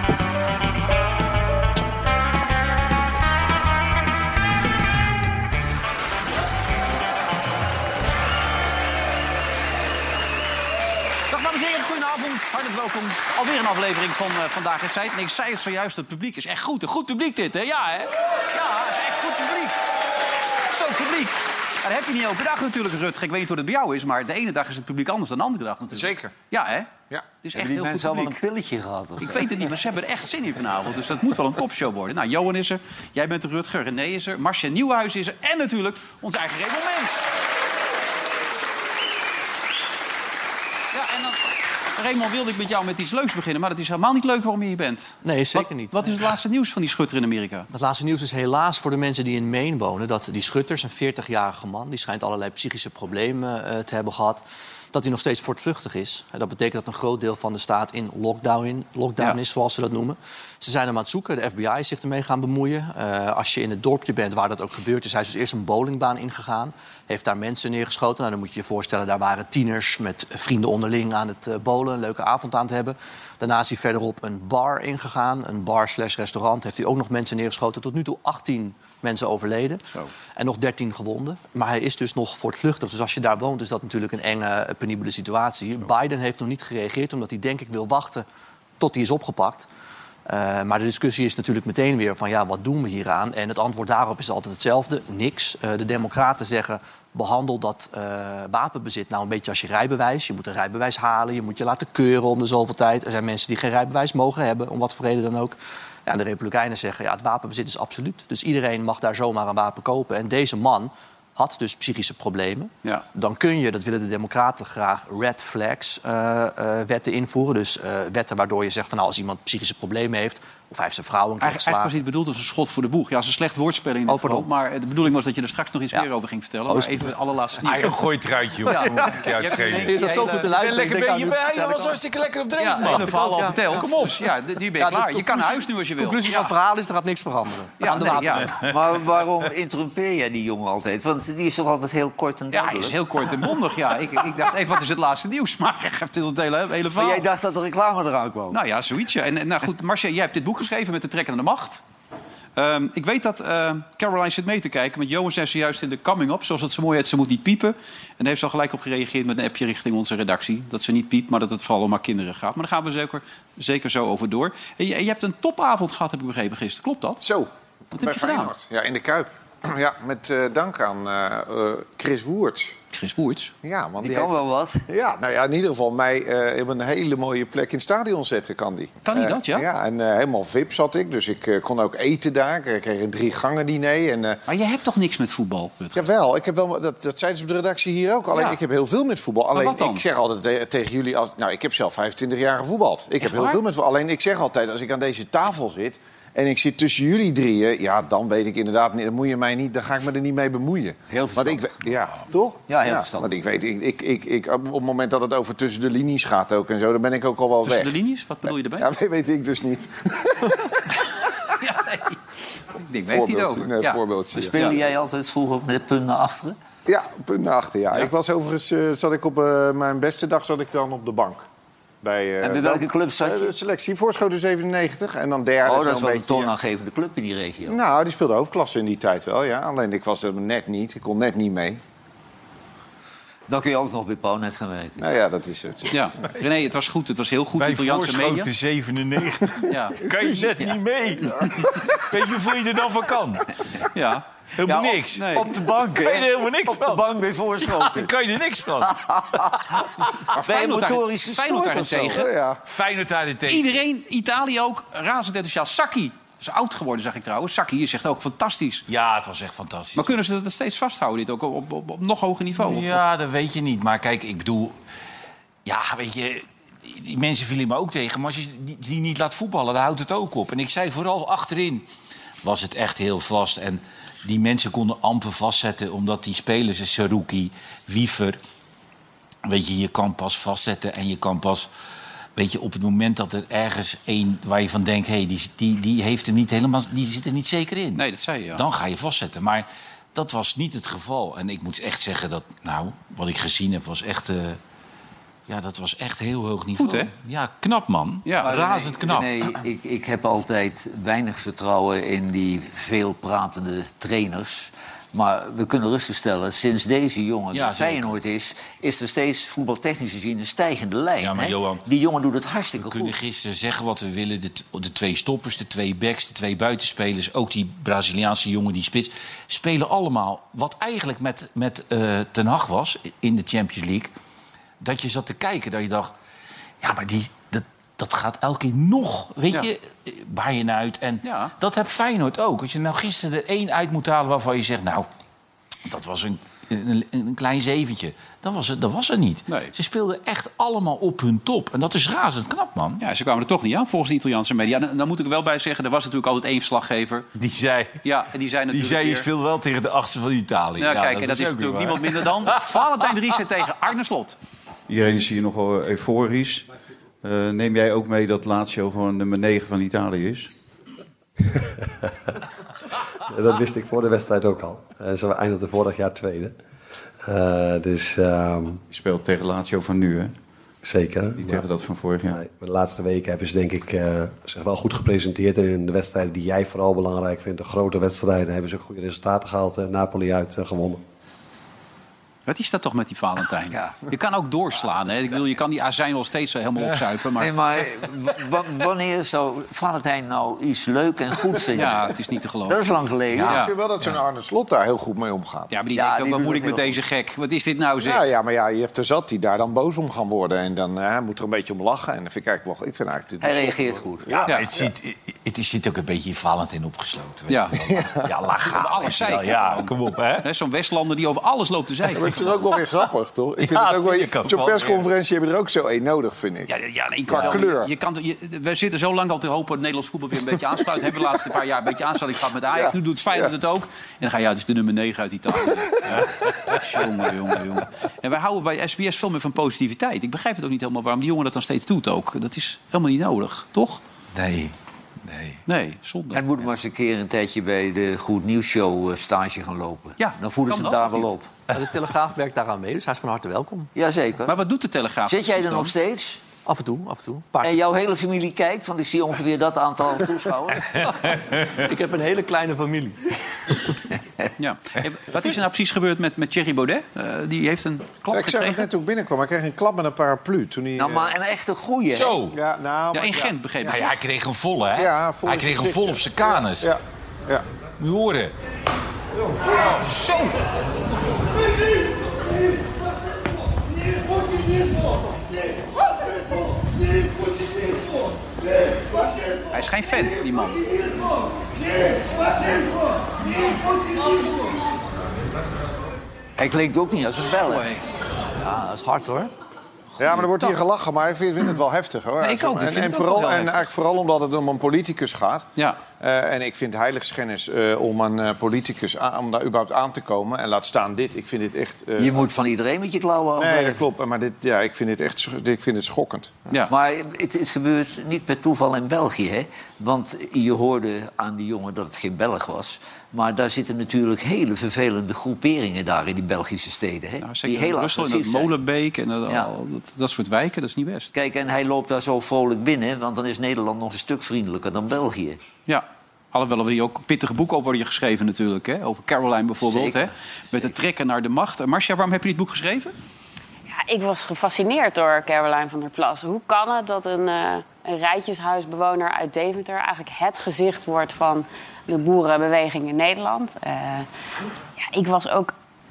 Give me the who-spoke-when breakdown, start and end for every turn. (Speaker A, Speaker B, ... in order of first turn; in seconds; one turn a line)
Speaker A: 11.3-19.8
Speaker A: 20.7-26.9
Speaker B: 25.9-26.3
Speaker A: 27.4-28.4
Speaker C: 27.5-29.5
Speaker A: 29.2-37.2
Speaker A: 40.9-47.7
Speaker D: 45.2-46.2
Speaker D: 47.7-79.8
Speaker D: 80.4-88.3
Speaker D: 88.8-89.7
Speaker D: 90.3-121.9
Speaker A: 121.4-127.9
Speaker D: 124.1-124.5
Speaker D: 126.7-127.0
Speaker E: 127.7-134.2
Speaker A: 128.7-130.5
Speaker D: 128.7-132.0
Speaker A: 132.6-136.5
Speaker D: 132.8-134.1
Speaker D: 134.8-138.6
Speaker A: 137.8-138.5
Speaker E: 138.3-138.7
Speaker C: 138.7-143.0
Speaker A: 142.5-147.3
Speaker C: 146.9-148.6
Speaker A: 148.5-151.8
Speaker A: 152.6-167.2
Speaker B: 167.2-172.8
Speaker A: 167.9-168.5
Speaker A: 172.9-173.5
Speaker B: 173.6-174.3
Speaker C: 174.0-174.8
Speaker B: 174.9-184.4
Speaker A: 179.1-179.7
Speaker A: 184.5-186.1
Speaker B: 185.9-207.9
Speaker A: 188.3-188.6
Speaker A: 189.5-190.1
Speaker A: 193.2-193.6
Speaker C: 201.1-201.7
Speaker C: 202.7-203.3
Speaker A: 207.6-208.9
Speaker B: 208.8-211.5
Speaker A: 211.6-212.2
Speaker A: 212.8-214.0
Speaker B: 213.1-214.8
Speaker C: 214.3-216.6
Speaker A: 214.5-214.8
Speaker B: 216.9-221.4
Speaker B: 222.0-226.5
Speaker C: 222.4-223.5
Speaker C: 225.6-227.8
Speaker B: 227.7-231.8
Speaker C: 233.5-235.0
Speaker B: 235.0-236.3
Speaker A: 235.9-238.5
Speaker E: 237.6-243.9
Speaker A: 239.7-240.0
Speaker A: 243.9-244.3
Speaker E: 244.6-250.3
Speaker C: 244.7-248.1
Speaker A: 245.2-245.5
Speaker C: 248.8-249.6
Speaker A: 250.3-252.3
Speaker C: 250.4-252.2
Speaker B: 252.1-252.6
Speaker E: 252.7-253.7
Speaker A: 253.5-258.9
Speaker E: 258.9-260.2
Speaker A: 260.0-263.0
Speaker E: 262.6-264.8
Speaker E: 265.6-271.9
Speaker E: 272.4-278.4
Speaker E: 279.5-281.7
Speaker E: 282.4-294.6
Speaker A: 288.0-288.6
Speaker E: 295.5-299.6
Speaker A: 296.8-297.1
Speaker A: 298.2-298.6
Speaker C: 298.4-313.2
Speaker E: 307.5-308.2
Speaker E: 311.2-311.9
Speaker E: 312.8-324.1
Speaker E: 324.8-326.1
Speaker E: 326.8-335.1
Speaker A: 331.2-331.5
Speaker E: 335.9-343.0
Speaker A: 339.5-339.7
Speaker A: 343.0-347.3
Speaker E: 347.4-348.0
Speaker A: 348.0-349.3
Speaker E: 348.7-352.8
Speaker A: 350.8-354.4
Speaker F: 354.9-356.7
Speaker F: 357.2-360.5
Speaker G: 363.3-366.6
Speaker G: 367.2-368.8
Speaker F: 368.9-370.4
Speaker G: 370.8-371.7
Speaker F: 371.4-372.4
Speaker G: 372.3-381.0
Speaker A: 382.5-387.6
Speaker C: 383.7-384.0
Speaker C: 387.4-392.0
Speaker A: 391.8-392.8
Speaker C: 392.7-393.6
Speaker E: 393.3-394.1
Speaker B: 393.5-395.7
Speaker A: 393.5-393.7
Speaker A: 395.7-398.2
Speaker C: 395.9-397.0
Speaker B: 398.0-404.9
Speaker C: 403.4-404.5
Speaker E: 404.5-410.5
Speaker A: 407.5-407.8
Speaker B: 407.9-408.2
Speaker A: 408.7-412.5
Speaker B: 412.1-416.7
Speaker E: 413.8-414.7
Speaker A: 413.8-415.0
Speaker A: 416.7-434.0
Speaker B: 417.3-417.9
Speaker E: 417.3-417.7
Speaker B: 422.7-423.5
Speaker E: 426.1-427.1
Speaker E: 434.3-435.6
Speaker A: 435.7-436.5
Speaker C: 436.3-441.5
Speaker A: 440.2-441.3
Speaker D: 441.7-443.9
Speaker C: 443.9-444.6
Speaker A: 444.5-445.9
Speaker C: 445.3-446.4
Speaker D: 446.6-447.8
Speaker C: 447.6-450.9
Speaker D: 451.1-453.2
Speaker A: 454.6-458.9
Speaker B: 458.3-461.4
Speaker C: 461.0-462.4
Speaker E: 462.1-462.6
Speaker B: 462.5-463.6
Speaker A: 463.1-464.1
Speaker E: 463.9-466.9
Speaker B: 465.0-467.6
Speaker E: 468.0-468.5
Speaker A: 469.7-470.6
Speaker A: 479.7-480.9
Speaker C: 486.6-488.0
Speaker A: 487.5-488.0
Speaker D: 488.6-489.5
Speaker A: 490.2-490.8
Speaker B: 490.2-495.7
Speaker A: 492.4-493.9
Speaker B: 496.2-502.5
Speaker C: 502.2-504.0
Speaker B: 503.6-506.6
Speaker C: 506.9-518.7
Speaker A: 517.4-521.3
Speaker C: 521.3-525.6
Speaker A: 525.9-533.1
Speaker C: 529.8-530.2
Speaker H: 533.9-544.3
Speaker H: 545.0-545.7